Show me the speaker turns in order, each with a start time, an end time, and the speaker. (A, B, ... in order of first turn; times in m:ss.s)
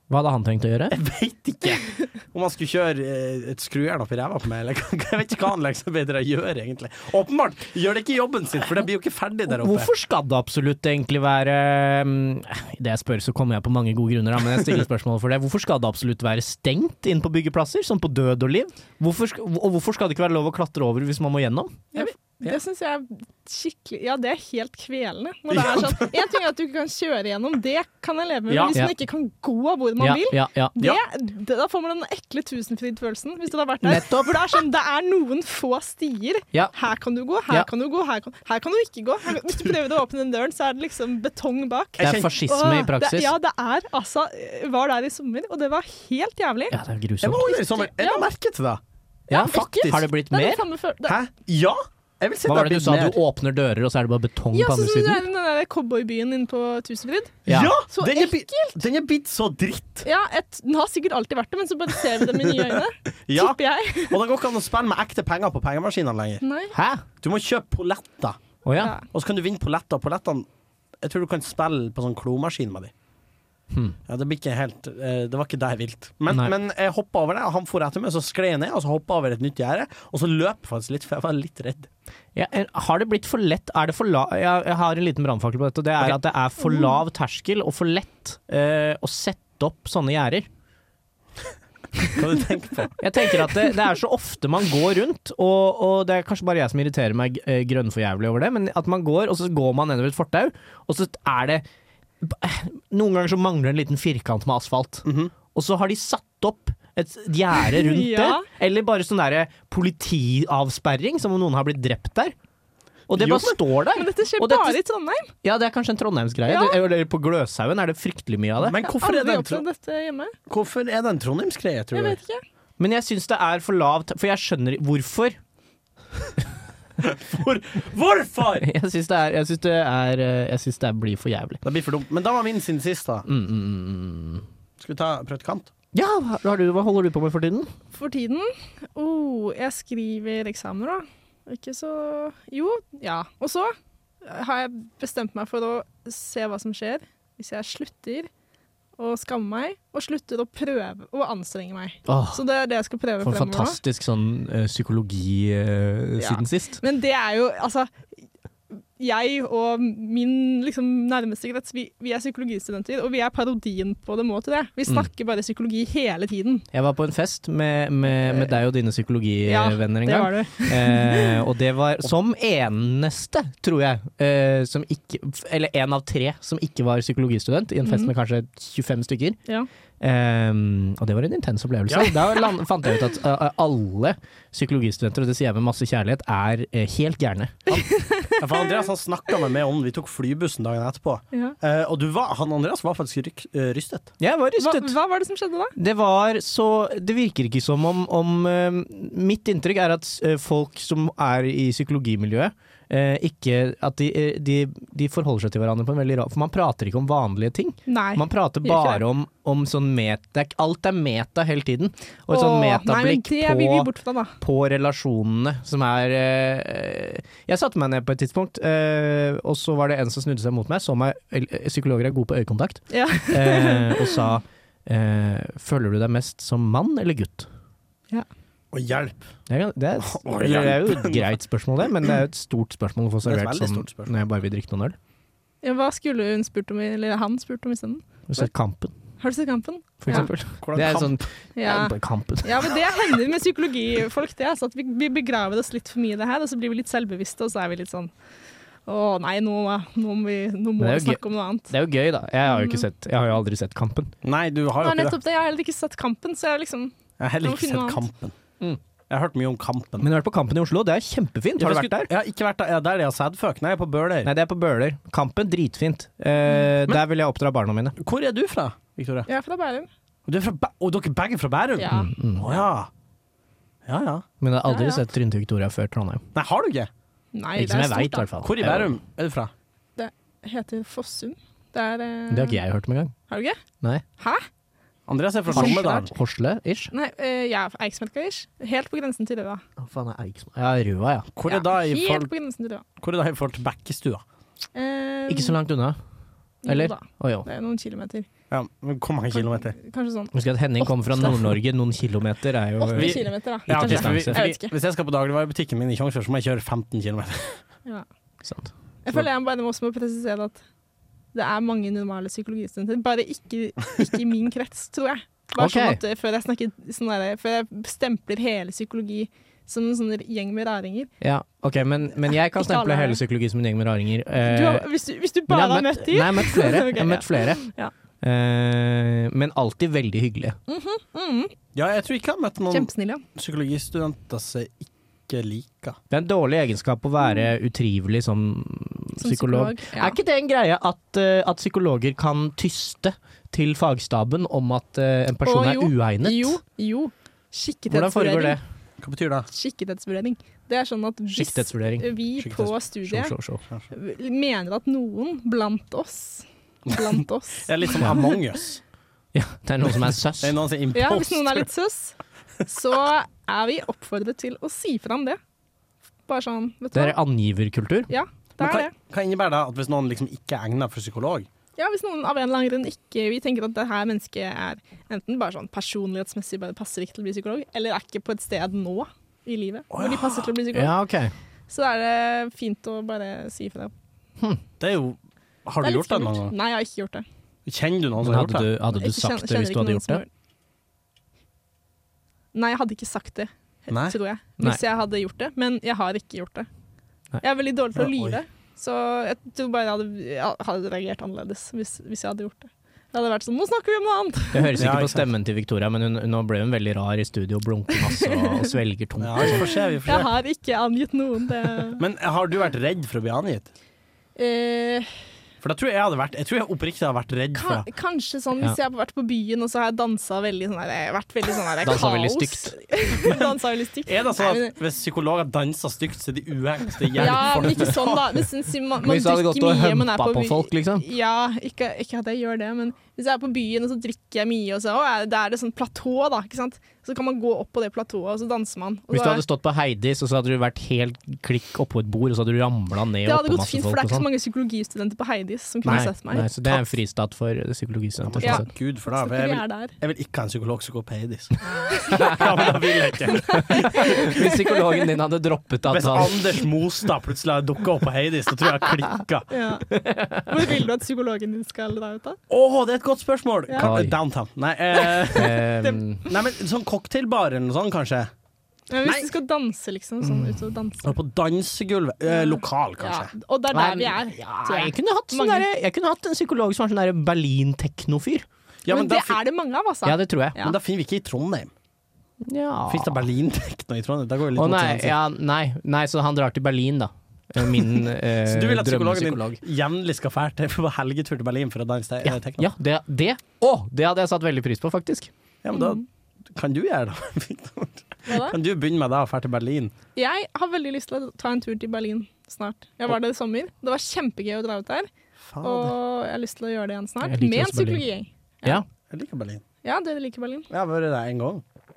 0:00.1-0:01.0 A
0:00.9-0:09.9 B
0:09.5-0:21.9 A
0:21.9-0:46.8 C
0:22.0-0:22.6 B
0:25.5-0:26.2 B
0:28.5-0:28.8 B
0:30.0-0:30.8 A
0:33.8-0:34.6 A
0:42.0-0:42.3 B
0:42.0-0:43.3 A
0:46.7-0:47.5 A
0:47.2-0:48.8 B
0:47.4-0:48.3 C
0:49.3-0:51.2 C
0:49.3-0:50.6 A
0:49.4-0:50.0 B
0:51.0-0:53.2 B
0:52.4-0:55.2 A
0:54.5-0:58.8 C
0:57.4-0:57.8 A
0:57.5-1:00.0 B
1:00.0-1:04.2 C
1:02.2-1:02.8 B
1:03.3-1:06.4 B
1:06.4-1:06.7 C
1:06.7-1:07.0 A
1:07.2-1:08.4 B
1:08.6-1:08.9 A
1:08.8-1:09.0 C
1:09.0-1:10.5 B
1:11.0-1:12.9 B
1:13.7-1:14.0 A
1:14.1-1:21.9 B
1:22.3-1:30.5 A
1:32.1-1:33.0 B
1:33.0-1:41.6 A
1:42.2-1:52.3 A
1:45.0-1:45.3 B
1:47.7-1:48.5 C
1:53.1-1:54.8 A
1:53.1-1:53.6 B
1:53.9-1:55.3 C
1:55.4-1:58.8 A
1:56.4-1:56.8 C
1:58.6-1:59.6 B
1:58.8-2:00.3 C
2:00.5-2:02.2 B
2:01.9-2:02.4 C
2:02.8-2:05.4 A
2:07.0-2:08.7 B
2:08.6-2:11.6 A
2:11.6-2:13.3 B
2:13.2-2:14.4 A
2:14.8-2:15.7 B
2:15.9-2:17.7 A
2:17.9-2:28.3 C
2:29.0-2:33.8 C
2:32.0-2:32.4 A
2:33.2-2:36.8 A
2:36.2-2:37.9 C
2:38.7-2:46.6 C
2:46.7-2:59.4 A
2:49.4-2:51.4 C
2:57.8-2:58.1 C
3:00.0-3:07.6 A
3:01.9-3:02.2 B
3:07.7-3:14.1 B
3:07.7-3:08.7 C
3:14.2-3:15.0 A
3:14.6-3:15.8 C
3:15.8-3:47.5 A
3:27.9-3:29.0 C
3:32.3-3:34.4 C
3:42.9-3:44.3 C
3:48.7-3:49.2 B
3:49.5-3:55.0 A
3:50.0-3:51.3 B
3:53.2-3:54.1 B
3:55.6-3:58.5 C
3:58.3-3:58.9 A
3:59.2-4:00.3 C
4:00.0-4:02.8 A
4:00.1-4:01.2 B
4:01.6-4:08.1 C
4:08.9-4:11.8 C
4:10.8-4:14.1 A
4:12.4-4:12.9 C
4:14.2-4:15.2 B
4:14.8-4:18.0 C
4:17.2-4:18.3 B
4:19.1-4:20.1 B
4:20.0-4:22.1 A
4:21.6-4:24.3 B
4:24.2-4:28.0 A
4:28.0-4:29.3 B
4:29.3-4:29.9 C
4:30.2-4:32.9 B
4:31.8-4:32.1 C
4:31.9-4:32.6 A
4:33.9-4:34.2 B
4:34.4-4:36.2 A
4:34.7-4:35.0 C
4:36.3-4:36.9 B
4:37.3-4:38.3 C
4:37.6-4:38.9 A
4:38.4-4:39.5 B
4:40.0-4:42.6 C
4:42.3-4:43.1 A
4:43.3-4:43.6 C
4:44.2-4:44.5 C
4:45.1-4:46.1 B
4:45.5-4:46.1 C
4:45.5-4:46.9 A
4:46.9-4:49.6 C
4:49.8-4:51.3 A
4:51.4-4:52.3 B
4:51.5-4:52.8 C
4:53.0-4:54.2 B
4:54.8-4:55.6 C
4:55.3-4:56.0 A
4:56.6-4:58.3 C
4:56.6-4:57.5 A
4:58.5-4:59.8 B
4:59.3-5:01.5 C
5:00.3-5:04.4 A
5:02.8-5:04.7 C
5:03.0-5:07.6 B
5:08.4-5:08.7 A
5:09.0-5:10.6 C
5:11.3-5:21.1 C
5:15.6-5:16.0 A
5:21.2-5:24.9 A
5:22.5-5:23.2 C
5:24.4-5:27.9 C
5:25.5-5:27.6 A
5:28.2-5:30.6 A
5:30.7-5:31.5 C
5:31.8-5:36.0 B
5:32.7-5:33.2 C
5:36.1-5:46.6 A
5:39.2-5:40.2 C
5:45.4-5:48.6 C
5:47.9-5:48.6 A
5:49.0-5:49.5 B
5:49.5-5:53.3 C
5:51.3-5:52.1 A
5:52.4-5:52.8 B
5:53.0-5:53.6 A
5:53.9-5:58.3 C
5:57.6-5:58.8 B
5:59.3-6:00.6 A
6:00.4-6:01.7 B
6:00.9-6:05.4 C
6:06.3-6:07.2 C
6:06.9-6:08.1 A
6:08.1-6:08.9 C
6:08.6-6:11.5 B
6:11.8-6:20.9 C
6:19.9-6:20.5 B
6:20.7-6:21.3 A
6:21.7-6:23.9 C
6:24.8-6:26.5 B
6:25.8-6:27.2 C
6:27.6-6:28.7 B
6:28.2-6:30.2 A
6:28.9-6:30.3 C
6:32.5-6:36.7 C
6:33.9-6:34.2 B
6:37.4-6:44.8 C
6:38.0-6:38.4 B
6:44.5-6:49.6 A
6:44.8-6:45.3 B
6:48.1-6:48.7 C
6:49.2-6:50.3 B
6:49.4-6:52.0 C
6:52.0-6:53.7 B
6:54.4-6:55.1 C
6:55.6-6:57.8 B
6:57.5-7:04.8 C
7:01.8-7:02.8 A
7:03.2-7:08.5 B
7:07.1-7:19.4 C
7:09.0-7:11.0 A
7:19.1-7:24.3 A
7:23.2-7:26.5 C
7:25.8-7:26.1 B
7:25.8-7:28.6 A
7:28.2-7:34.3 B
7:28.4-7:30.0 C
7:31.8-7:35.1 C
7:32.1-7:32.5 A
7:33.8-7:36.6 A
7:35.9-7:39.5 B
7:39.5-7:39.9 C
7:39.9-7:40.6 A
7:40.4-7:42.4 C
7:42.5-7:45.6 B
7:43.7-7:44.0 C
7:43.8-7:44.2 A
7:45.0-7:46.0 C
7:45.3-7:46.2 A
7:46.2-7:48.3 B
7:48.9-7:51.2 C
7:49.0-7:49.3 B
7:50.2-7:50.6 A
7:51.0-7:53.3 B
7:52.2-7:55.6 C
7:53.7-7:58.5 A
7:58.8-7:59.4 B
7:58.9-8:00.8 C
8:00.0-8:00.6 A
8:00.6-8:01.7 B
8:02.4-8:03.3 A
8:02.9-8:05.2 B
8:04.5-8:09.6 A
8:08.4-8:12.7 B
8:12.2-8:15.3 A
8:15.6-8:19.9 B
8:15.7-8:16.0 C
8:18.3-8:18.6 C
8:20.2-8:25.1 C
8:25.5-8:26.0 B
8:25.6-8:28.8 C
8:27.2-8:28.0 A
8:29.1-8:29.6 B
8:29.8-8:30.7 C
8:30.7-8:31.6 B